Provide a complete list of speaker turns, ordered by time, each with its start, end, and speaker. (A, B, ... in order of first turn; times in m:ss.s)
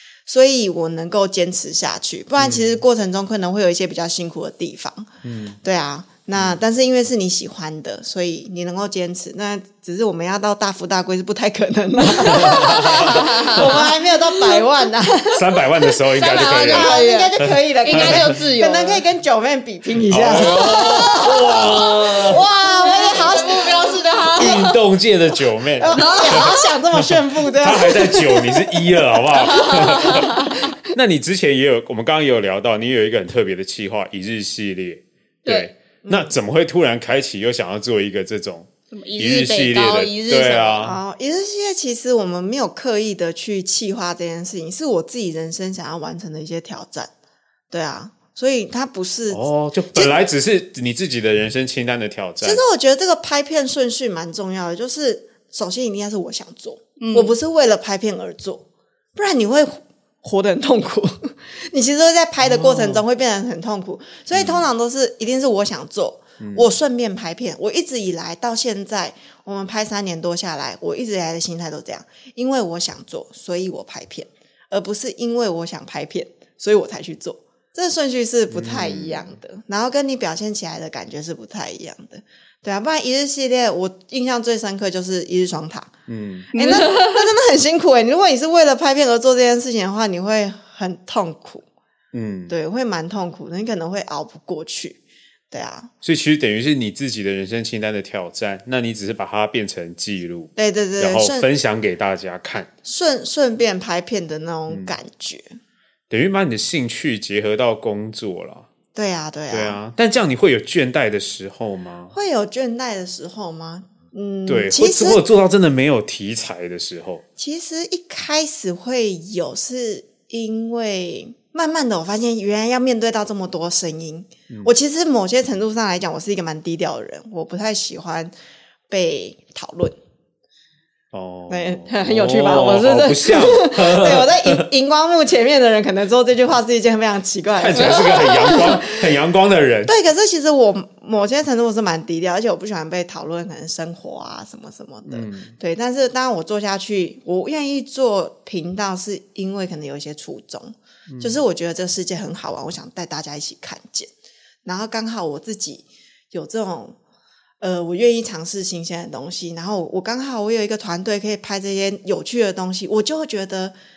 0:00.3-0:05.1 A
0:02.4-0:02.8 B
0:05.2-0:05.6 B
0:05.6-0:15.4 A
0:12.2-0:13.9 B
0:12.3-0:14.6 C
0:15.3-0:18.4 B
0:16.2-0:19.0 C
0:16.2-0:24.0 A
0:20.1-0:22.5 B
0:20.4-0:24.8 C
0:24.4-0:41.0 B
0:25.8-0:28.8 A
0:25.9-0:26.7 C
0:29.3-0:30.7 C
0:36.0-0:36.3 A
0:38.9-0:40.8 C
0:40.8-0:47.1 A
0:47.7-0:49.4 A
0:49.3-0:52.6 B
0:52.4-0:58.6 A
0:57.0-0:57.3 C
0:59.2-1:25.9 A
1:02.4-1:03.0 B
1:04.3-1:04.7 B
1:06.4-1:06.7 B
1:18.5-1:19.2 B
1:26.1-1:26.5 B
1:26.5-1:31.6 A
1:26.5-1:27.3 C
1:32.1-1:32.6 B
1:32.5-1:35.0 A
1:35.5-1:35.9 A
1:36.0-1:42.7 B
1:40.6-1:41.5 A
1:42.8-1:45.5 A
1:44.7-1:44.9 B
1:46.1-1:48.7 B
1:49.0-1:49.8 A
1:49.5-1:52.1 B
1:52.1-1:55.2 A
1:54.5-1:57.2 B
1:57.4-2:08.3 A
2:08.9-2:10.0 A
2:11.1-2:14.7 B
2:11.5-2:18.9 A
2:17.6-2:19.9 B
2:17.8-2:18.8 C
2:19.9-2:34.1 A
2:25.1-2:25.5 B
2:31.1-2:31.4 B
2:34.6-2:37.0 A
2:37.6-2:43.7 A